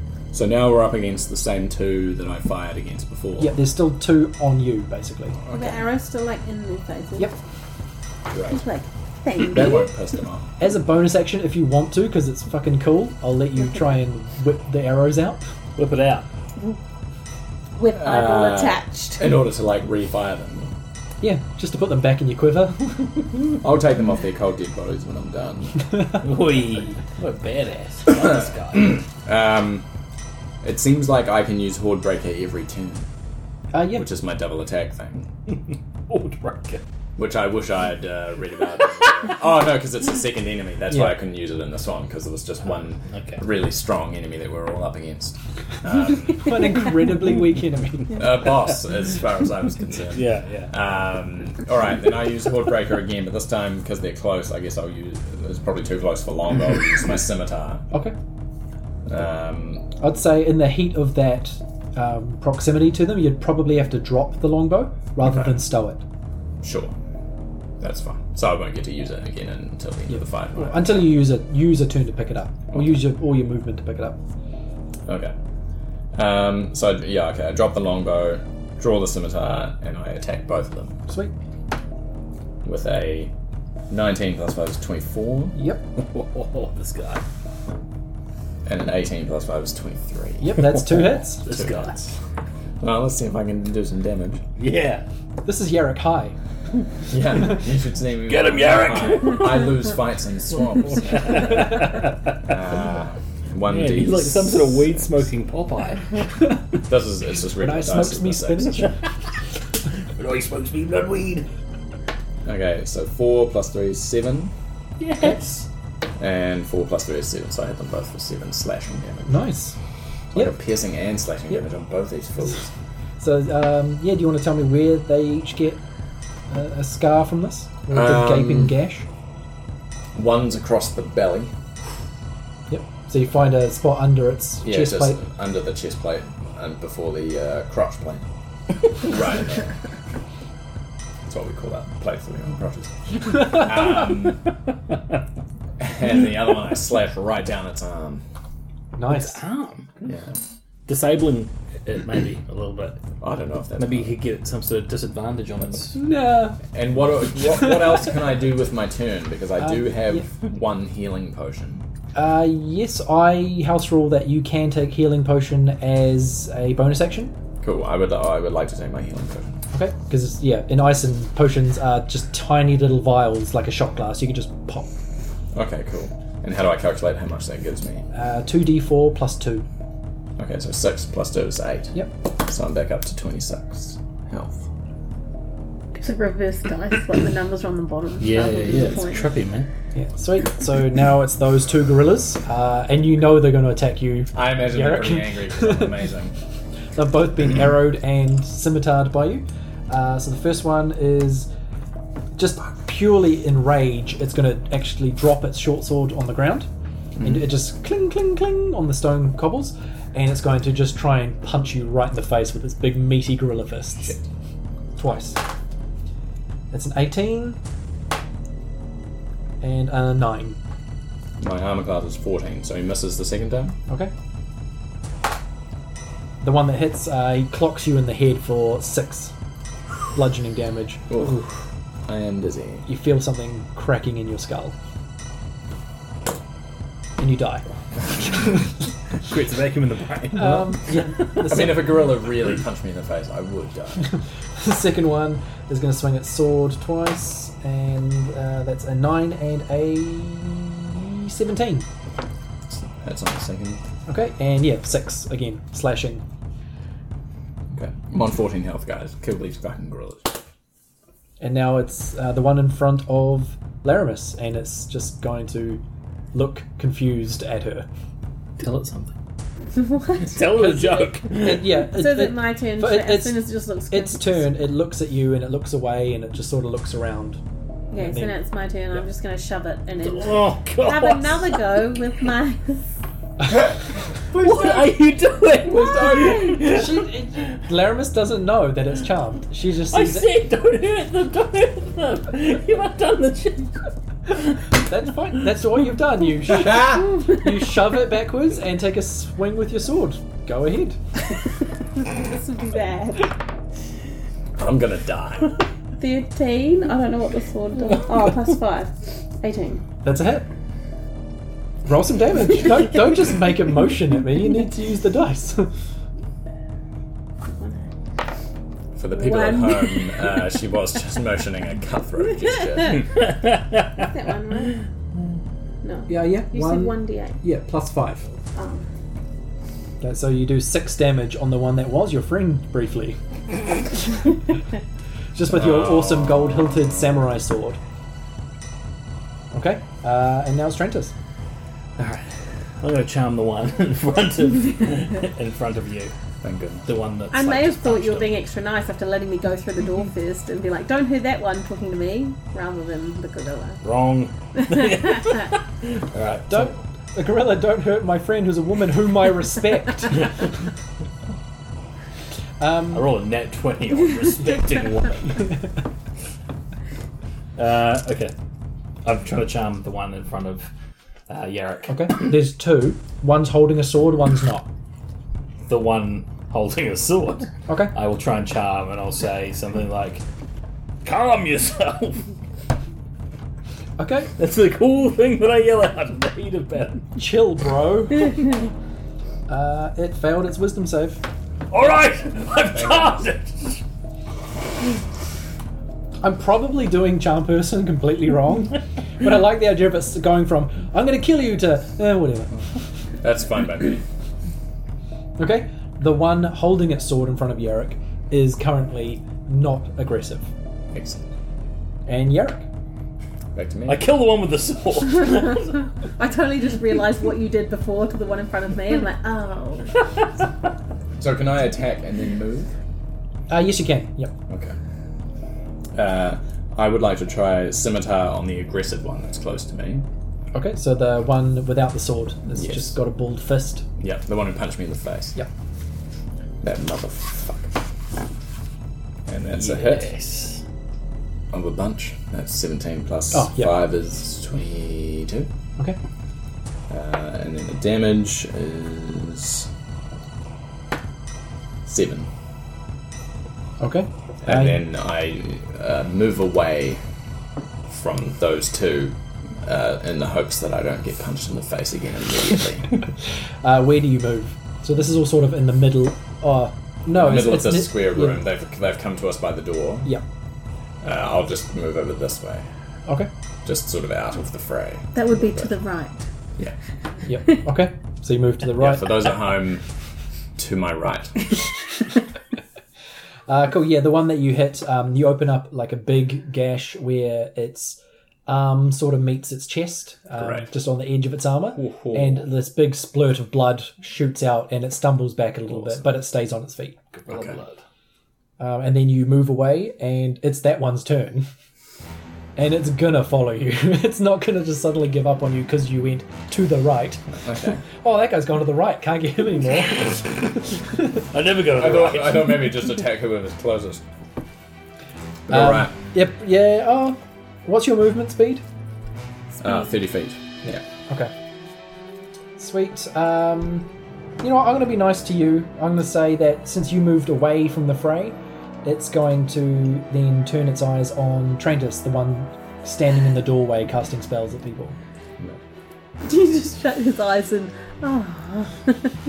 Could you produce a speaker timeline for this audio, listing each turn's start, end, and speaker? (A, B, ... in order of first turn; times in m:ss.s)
0:00.3-0:03.6 A
0:03.4-0:05.4 B
0:05.4-0:05.8 A
0:05.5-0:07.4 C
0:08.3-0:08.6 A
0:08.4-0:09.9 C
0:09.4-0:10.5 A
0:10.6-0:15.5 B
0:15.8-0:16.3 D
0:17.8-0:19.2 C
0:18.0-0:20.8 A
0:21.2-0:23.1 B
0:23.4-0:26.1 A
0:26.2-0:29.0 D
0:28.7-0:29.9 A
0:30.6-0:33.1 A
0:33.7-0:34.1 B
0:33.9-0:35.3 A
0:36.1-0:36.8 D
0:37.2-0:46.6 A
0:40.9-0:41.2 B
0:43.1-0:43.4 D
0:46.4-0:48.5 B
0:48.1-0:57.9 A
0:50.1-0:50.7 D
0:59.1-1:00.0 A
1:00.0-1:06.0 B
1:05.2-1:05.6 A
1:06.6-1:06.9 A
1:07.8-1:11.0 A
1:10.1-1:14.2 B
1:15.1-1:15.3 A
1:16.1-1:21.0 A
1:21.1-1:21.3 B
1:22.6-1:23.3 A
1:23.9-1:25.6 A
1:25.6-1:25.9 B
1:26.1-1:27.2 D
1:28.6-1:30.6 A
1:30.4-1:31.4 B
1:30.7-1:32.1 D
1:31.5-1:31.9 A
1:32.8-1:34.4 A
1:34.6-1:35.0 D
1:35.4-1:36.4 B
1:37.1-1:45.1 A
1:38.3-1:39.7 D
1:40.8-1:42.5 D
1:43.7-1:46.1 D
1:46.8-1:48.9 A
1:47.6-1:49.0 B
1:50.2-1:51.5 D
1:52.5-1:54.5 A
1:55.0-1:55.7 D
1:56.2-1:59.4 A
1:59.3-1:59.8 B
2:00.3-2:02.7 A
2:03.2-2:05.8 B
2:06.5-2:09.1 B
2:07.9-2:08.8 A
2:10.2-2:11.5 A
2:12.7-2:15.2 B
2:14.6-2:18.3 A
2:19.0-2:19.8 A
2:21.3-2:24.5 A
2:25.8-2:28.2 A
2:29.0-2:29.4 B
2:29.1-2:29.9 D
2:30.0-2:30.4 A
2:30.9-2:33.0 D
2:33.2-2:34.2 A
2:33.8-2:36.0 D
2:35.9-2:36.6 B
2:36.7-2:41.9 A
2:37.5-2:38.1 B
2:39.6-2:40.3 B
2:42.1-2:47.3 B
2:47.6-2:49.6 A
2:49.7-2:54.9 B
2:55.5-2:58.0 A
2:58.1-2:59.6 B
3:00.4-3:04.6 A
3:06.0-3:09.3 C
3:08.2-3:09.7 D
3:09.9-3:16.0 B
3:14.3-3:16.4 A
3:17.0-3:21.5 B
3:22.4-3:26.7 B
3:27.2-3:34.1 B
3:35.0-3:35.4 B
3:36.7-3:37.6 B
3:39.6-3:40.6 B
3:41.4-3:43.8 A
3:46.4-3:49.3 B
3:50.1-3:51.2 B
3:51.1-3:51.5 A
3:52.0-3:52.9 A
3:52.9-3:54.8 B
3:57.2-3:57.7 B
3:59.3-4:00.9 D
4:00.3-4:02.1 B
4:01.4-4:04.2 A
4:04.6-4:11.9 B
4:12.7-4:13.8 A
4:14.1-4:16.2 B
4:17.7-4:20.4 A
4:21.4-4:27.9 B
4:28.6-4:29.1 D
4:29.9-4:30.2 C
4:30.2-4:31.8 D
4:30.5-4:37.4 B
4:31.9-4:34.5 C
4:37.9-4:38.4 B
4:37.9-4:42.8 C
4:40.0-4:41.6 D
4:44.3-4:47.6 D
4:45.7-4:46.6 A
4:46.0-4:46.5 C
4:46.7-4:50.3 B
4:49.9-4:53.8 D
4:54.7-5:01.0 B
4:56.6-4:57.0 A
5:02.0-5:03.3 C
5:04.6-5:05.6 A
5:06.0-5:09.8 C
5:10.0-5:10.5 B
5:11.9-5:15.7 B
5:17.5-5:17.9 C
5:19.0-5:23.2 A
5:19.2-5:20.4 C
5:23.2-5:24.0 D
5:24.0-5:24.8 C
5:25.8-5:27.4 C
5:26.1-5:28.3 B
5:28.6-5:28.8 C
5:30.0-5:33.2 B
5:35.3-5:37.8 B
5:35.6-5:37.0 A
5:39.5-5:41.1 B
5:42.0-5:46.1 D
5:46.4-5:46.8 A
5:46.8-5:48.3 D
5:47.3-5:53.8 C
5:53.8-5:56.8 D
5:54.6-5:55.4 C
5:56.5-6:00.3 B
6:00.1-6:00.4 D
6:02.6-6:03.1 B
6:02.9-6:05.5 D
6:07.6-6:08.3 D
6:09.0-6:10.7 D
6:11.3-6:12.3 D
6:11.9-6:14.7 B
6:15.7-6:20.2 D
6:17.7-6:17.9 B
6:21.0-6:22.3 D
6:24.0-6:24.3 B
6:24.4-6:27.1 D
6:27.2-6:28.4 B
6:29.5-6:31.2 B
6:31.7-6:33.8 D
6:32.8-6:33.2 A
6:36.2-6:42.6 B
6:43.2-6:44.0 A
6:45.4-6:50.5 B
6:50.9-6:51.3 A
6:52.1-6:52.7 B
6:53.6-6:54.1 A
6:53.9-6:55.9 D
6:56.2-7:00.0 C
7:01.2-7:02.7 A
7:03.5-7:04.3 B
7:04.5-7:04.8 A
7:06.0-7:10.1 A
7:10.5-7:13.8 B
7:12.5-7:13.0 A
7:14.0-7:15.4 A
7:16.6-7:17.8 A
7:19.3-7:20.1 A
7:19.5-7:20.6 D
7:21.5-7:25.5 A
7:23.3-7:23.8 B
7:26.9-7:29.7 A
7:31.9-7:32.3 A
7:33.8-7:34.8 B
7:34.4-7:37.0 A
7:37.9-7:43.0 A
7:43.6-7:48.4 B
7:47.2-7:50.2 A
7:51.0-7:52.7 A
7:53.6-7:55.7 A
7:55.2-7:56.2 C
7:57.3-7:59.3 B
7:58.8-7:59.8 A
8:00.6-8:01.5 A
8:03.5-8:17.0 B
8:10.4-8:10.7 A
8:11.8-8:12.4 D
8:17.2-8:17.8 D
8:17.3-8:17.6 A
8:18.6-8:21.5 B
8:22.6-8:31.2 B
8:27.4-8:27.8 A
8:31.3-8:32.7 D
8:31.7-8:34.0 A
8:35.5-8:35.9 A
8:35.5-8:38.6 B
8:39.6-8:40.8 A
8:40.7-8:41.3 B
8:42.6-8:43.9 B
8:44.4-8:55.0 B
8:56.2-8:59.1 C